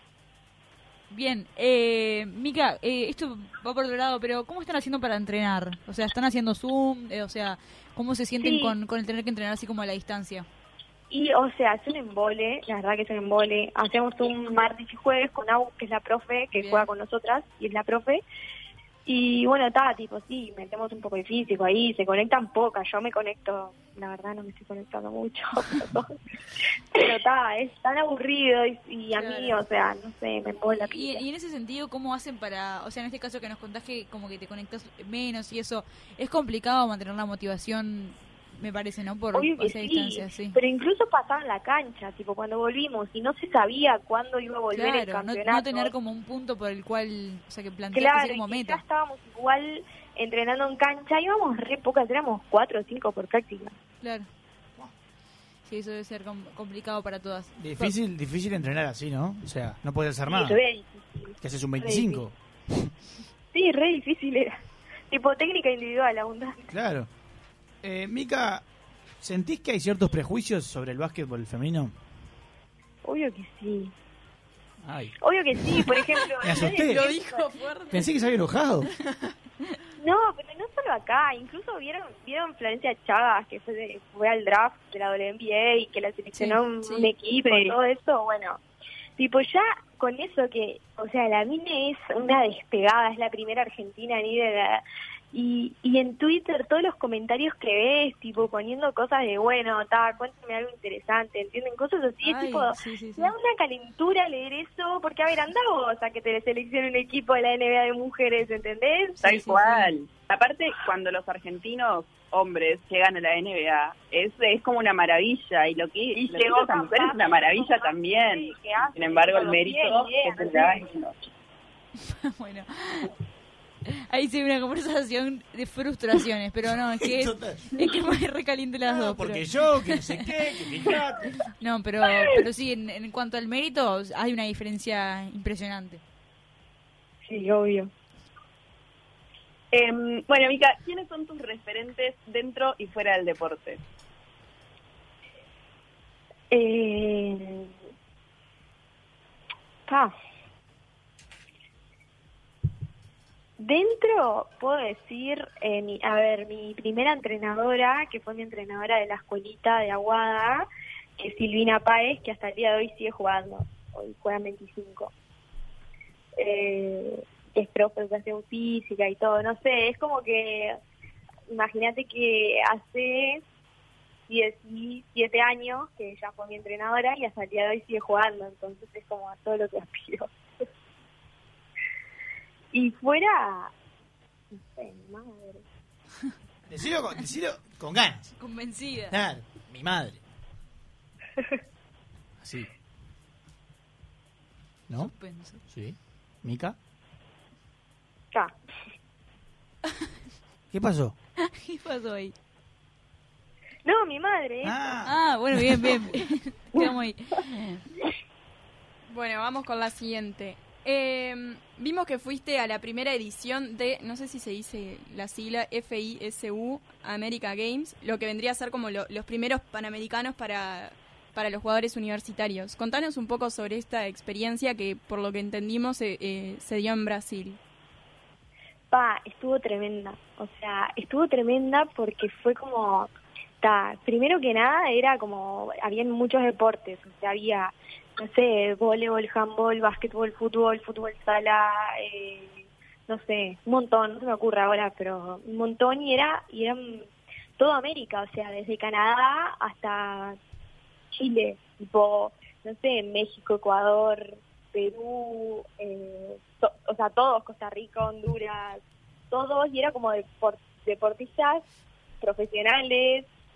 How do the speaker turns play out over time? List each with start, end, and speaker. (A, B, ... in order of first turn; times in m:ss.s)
0:01.1-0:10.5 A
0:08.4-0:08.8 B
0:11.1-0:18.2 B
0:16.6-0:16.9 A
0:19.1-0:26.1 B
0:27.0-0:31.2 B
0:29.2-0:29.5 A
0:30.9-0:40.6 A
0:39.3-0:45.9 B
0:44.7-0:48.8 A
0:47.9-0:53.7 B
0:54.0-0:54.3 A
0:55.7-0:57.9 A
0:57.6-1:00.6 C
1:00.3-1:02.2 B
1:01.4-1:02.9 C
1:03.5-1:04.6 B
1:05.1-1:06.6 B
1:06.7-1:07.1 C
1:07.8-1:08.6 C
1:09.2-1:11.9 C
1:13.0-1:13.9 B
1:14.8-1:15.2 C
1:15.2-1:17.4 B
1:16.4-1:17.1 C
1:16.5-1:18.1 D
1:17.9-1:18.9 C
1:19.0-1:19.3 D
1:20.0-1:28.6 B
1:26.8-1:27.8 D
1:29.2-1:49.2 B
1:42.2-1:43.3 A
1:49.2-2:01.2 E
1:49.2-1:49.9 A
1:56.1-2:00.9 B
2:02.0-2:03.1 A
2:03.9-2:10.3 A
2:06.7-2:07.7 C
2:08.9-2:11.3 C
2:11.6-2:16.0 A
2:17.3-2:17.9 B
2:19.7-2:23.8 E
2:26.5-2:27.7 B
2:29.9-2:30.1 B
2:33.6-2:40.7 B
2:41.2-2:45.1 B
2:46.4-2:50.8 B
2:51.5-2:53.4 B
2:54.3-3:00.3 B
3:02.7-3:03.7 B
3:04.5-3:05.6 B
3:06.7-3:08.3 C
3:08.4-3:09.2 A
3:09.1-3:10.2 C
3:12.4-3:12.7 C
3:15.0-3:15.6 A
3:15.7-3:16.8 C
3:20.7-3:21.2 C
3:21.4-3:22.4 A
3:23.8-3:24.8 B
3:24.6-3:26.1 C
3:25.0-3:27.8 A
3:29.1-3:47.6 D
3:48.9-4:07.1 B
4:07.6-4:10.4 B
4:11.1-4:21.7 B
4:22.2-4:23.3 B